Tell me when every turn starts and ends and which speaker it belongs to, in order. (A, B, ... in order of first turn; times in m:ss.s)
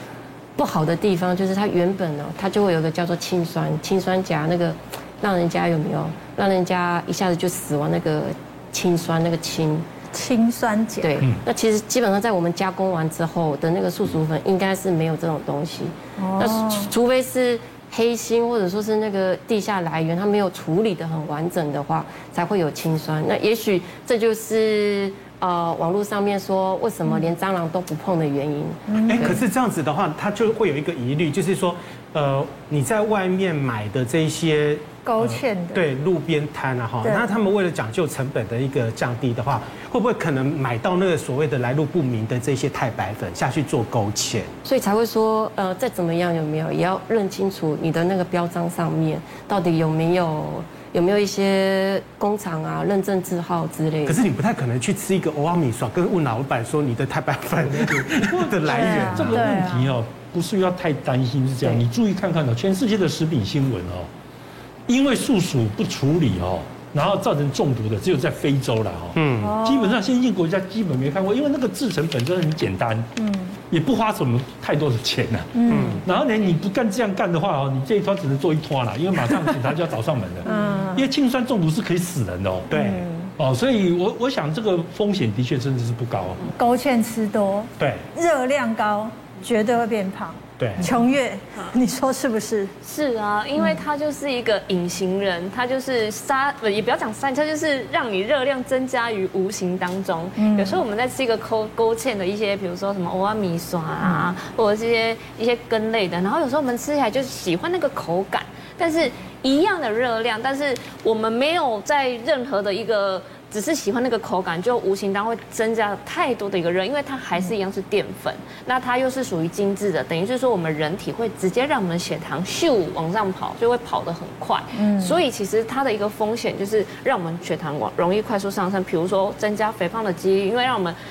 0:00.6-0:09.9 A
0:10.1-0:11.2 B
0:11.0-0:29.4 A
0:11.1-0:11.4 C
0:16.2-0:16.9 B
0:28.9-0:29.4 B
0:29.1-0:44.5 D
0:35.0-0:35.9 B
0:37.0-0:37.3 B
0:44.6-0:54.2 A
0:54.1-0:59.4 D
0:57.8-1:04.1 C
0:58.7-1:00.0 B
1:04.9-1:13.1 C
1:09.2-1:09.6 D
1:09.4-1:10.0 B
1:13.2-1:13.6 B
1:13.7-1:22.7 C
1:15.5-1:16.0 B
1:15.7-1:16.0 D
1:20.4-1:21.1 B
1:22.7-1:23.3 B
1:22.7-1:23.0 D
1:23.4-1:26.5 C
1:26.6-1:32.7 B
1:30.6-1:30.9 D
1:32.8-2:11.0 E
1:40.4-1:40.8 B
2:04.8-2:05.2 B